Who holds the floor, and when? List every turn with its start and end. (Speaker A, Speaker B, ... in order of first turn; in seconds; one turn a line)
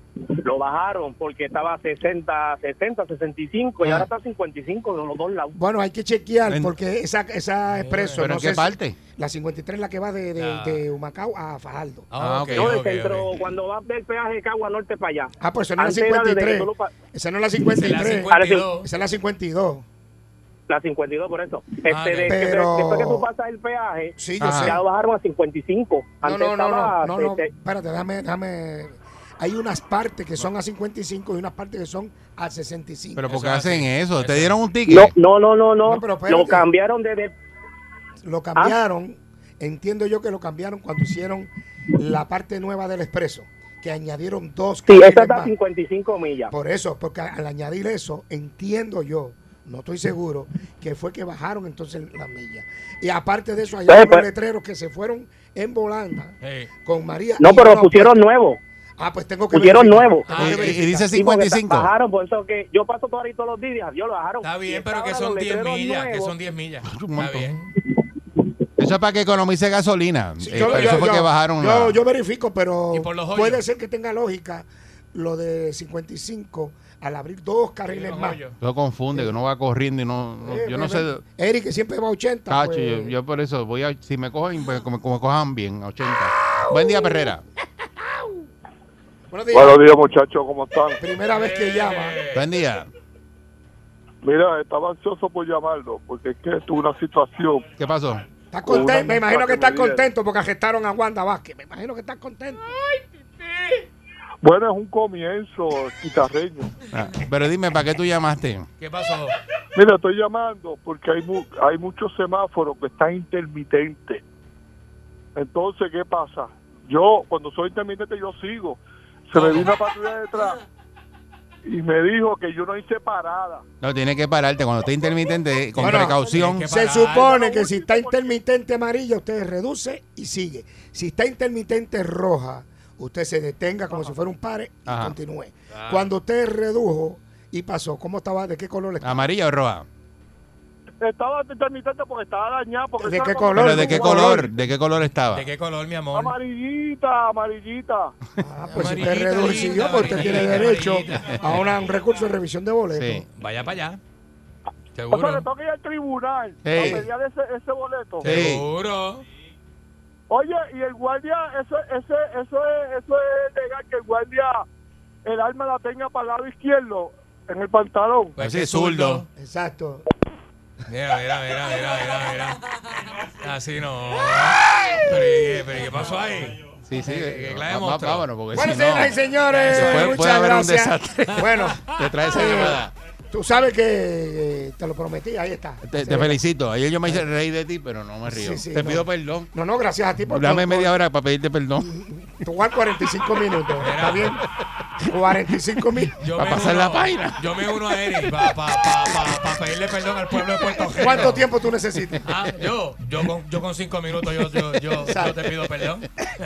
Speaker A: 0.4-5.5
Speaker B: 3.8-4.1
Speaker B: 5.5-12.1
Speaker C: 6.5-6.7
Speaker D: 7.7-8.2
Speaker C: 8.2-9.0
Speaker D: 10.3-10.8
Speaker D: 12.1-13.5
Speaker C: 12.2-12.7
Speaker A: 12.6-16.9
Speaker B: 15.4-19.8
Speaker D: 17.6-18.9
Speaker A: 18.3-18.6
Speaker A: 20.7-27.5
Speaker D: 21.9-22.5
Speaker B: 22.3-23.3
Speaker B: 24.2-24.8
Speaker C: 24.4-24.8
Speaker B: 26.2-33.2
Speaker C: 33.1-35.1
Speaker D: 33.2-34.6
Speaker A: 34.9-37.3
Speaker B: 35.8-36.6
Speaker B: 38.2-45.5
Speaker A: 44.9-46.5
Speaker B: 46.5-58.2
Speaker A: 53.9-54.2
Speaker D: 56.4-56.7
Speaker A: 57.4-58.6
Speaker B: 59.0-61.0
Speaker A: 59.5-60.4
Speaker D: 60.2-60.7
Speaker C: 60.4-61.9
Speaker A: 61.1-66.3
Speaker D: 64.4-67.7
Speaker C: 66.8-67.5
Speaker C: 68.8-72.0
Speaker B: 70.4-78.4
Speaker D: 70.5-71.0
Speaker D: 72.9-73.6
Speaker D: 77.9-78.6
Speaker C: 78.6-81.2
Speaker B: 80.4-83.1
Speaker C: 82.5-87.4
Speaker B: 88.0-88.4
Speaker B: 89.3-89.8
Speaker E: 89.5-91.0
Speaker B: 91.0-92.2
Speaker D: 91.3-92.4
Speaker C: 92.3-92.9
Speaker E: 94.2-97.7
Speaker C: 97.8-98.2
Speaker B: 98.5-102.7
Speaker E: 98.7-100.0
Speaker E: 104.4-106.7
Speaker C: 106.9-108.7
Speaker D: 108.8-109.4
Speaker E: 109.8-114.2
Speaker E: 115.3-118.8
Speaker E: 119.3-120.6
Speaker D: 119.3-119.7
Speaker E: 121.7-123.6
Speaker C: 123.8-126.7
Speaker D: 125.7-127.3
Speaker B: 125.8-139.3
Speaker E: 127.2-128.3
Speaker C: 134.9-135.2
Speaker D: 135.7-136.1
Speaker C: 139.0-139.9
Speaker E: 141.0-144.3
Speaker B: 143.0-144.5
Speaker C: 143.5-145.5
Speaker D: 145.3-146.3
Speaker E: 146.1-148.1
Speaker B: 148.4-153.2
Speaker D: 148.7-151.8
Speaker C: 152.9-153.2
Speaker D: 153.3-154.0
Speaker D: 154.9-155.4
Speaker E: 155.1-158.3
Speaker C: 156.6-157.1
Speaker B: 156.7-157.0
Speaker D: 158.2-159.2
Speaker C: 158.2-158.7
Speaker E: 160.3-164.6
Speaker E: 165.2-168.3
Speaker D: 168.3-169.2
Speaker C: 168.4-169.2
Speaker B: 169.3-170.1
Speaker D: 170.9-178.3
Speaker B: 174.7-175.0
Speaker C: 176.8-179.2
Speaker B: 178.5-186.4
Speaker D: 179.5-180.2
Speaker C: 179.7-182.9
Speaker D: 181.4-182.7
Speaker C: 185.8-189.5
Speaker B: 188.2-191.0
Speaker C: 190.3-192.0
Speaker B: 191.9-194.4
Speaker D: 193.8-194.4
Speaker B: 195.1-196.2
Speaker D: 196.2-201.4
Speaker C: 196.3-197.5
Speaker B: 200.9-202.2
Speaker D: 202.3-206.1
Speaker B: 205.0-205.4